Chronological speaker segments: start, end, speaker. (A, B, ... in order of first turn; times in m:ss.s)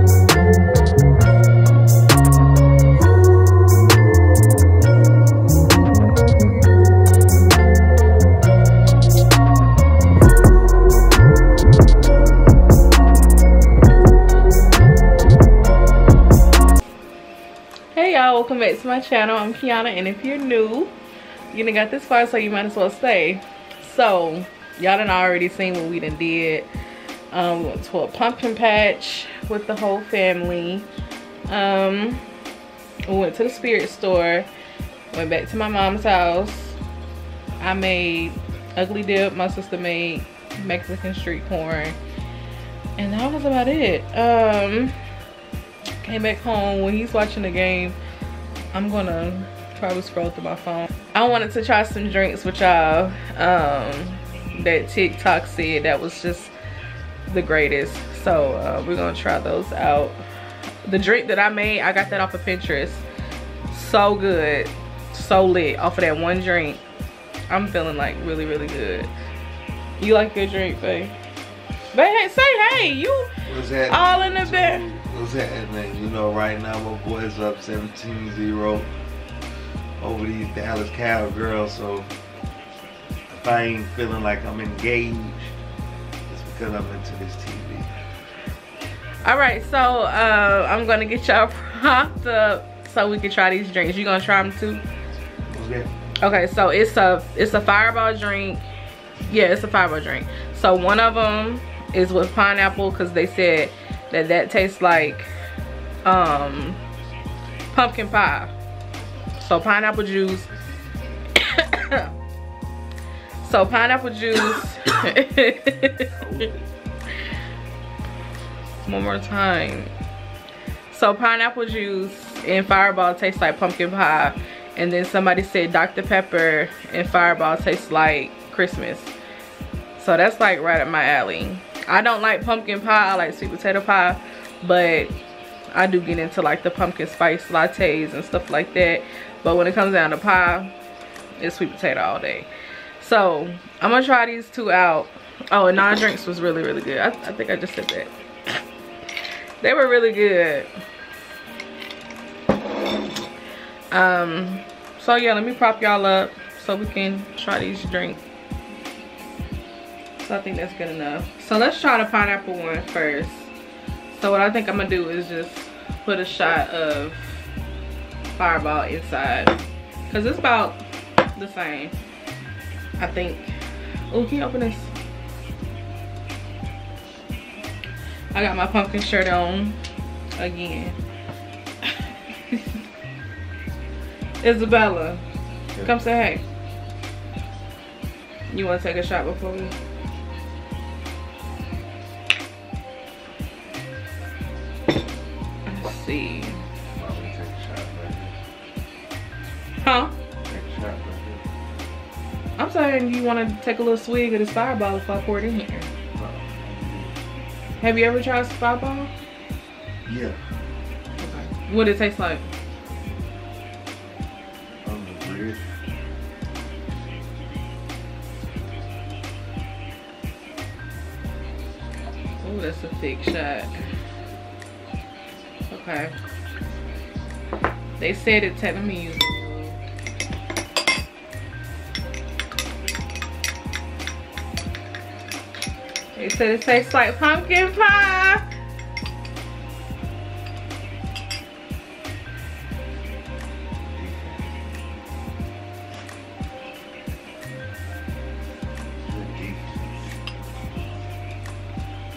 0:17.9-0:20.9 A
0:21.5-0:26.7 A
0:27.3-0:30.9 A
0:31.5-0:32.2 A
0:33.1-0:34.5 A
0:35.1-0:36.8 A
0:37.6-0:42.0 A
0:43.0-0:45.0 A
0:46.0-0:48.0 A
0:48.7-0:56.5 A
0:57.3-1:00.2 A
1:00.8-1:03.0 A
1:03.7-1:06.8 A
1:07.5-1:09.1 A
1:10.0-1:11.2 A
1:11.9-1:13.3 A
1:13.5-1:18.9 B
1:13.9-1:14.8 A
1:20.0-1:22.1 B
1:23.3-1:25.6 B
1:26.3-1:27.9 B
1:29.2-1:34.8 A
1:35.5-1:35.9 B
1:36.2-1:38.6 A
1:39.3-1:45.3 A
1:46.0-1:46.8 A
1:47.7-1:48.5 A
1:49.4-1:50.5 A
1:51.4-1:52.1 A
1:53.4-1:56.1 A
1:56.2-1:56.5 B
1:58.8-1:59.9 A
2:00.9-2:09.1 A
2:10.0-2:15.2 A
2:15.7-2:20.7 A
2:21.4-2:28.1 A
2:29.6-2:30.7 A
2:33.9-2:38.2 A
2:40.2-2:43.5 A
2:44.1-2:47.5 A
2:48.4-2:49.6 A
2:50.1-2:50.8 A
2:51.4-2:52.0 A
2:53.0-2:53.5 A
2:54.1-2:54.9 A
2:58.3-2:59.8 A
3:00.4-3:01.0 A
3:04.4-3:05.2 A
3:05.8-3:06.4 A
3:08.5-3:09.8 A
3:15.7-3:16.6 A
3:16.9-3:18.4 B
3:19.8-3:20.1 A
3:20.5-3:21.4 B
3:22.6-3:25.9 A
3:26.2-3:27.1 B
3:27.8-3:29.1 A
3:30.0-3:30.4 B
3:31.2-3:32.4 A
3:34.8-3:35.6 B
3:42.4-3:43.7 A
3:45.7-3:46.1 A
3:48.0-3:49.8 A
3:56.2-3:58.4 A
4:03.8-4:04.5 B
4:09.0-4:10.1 B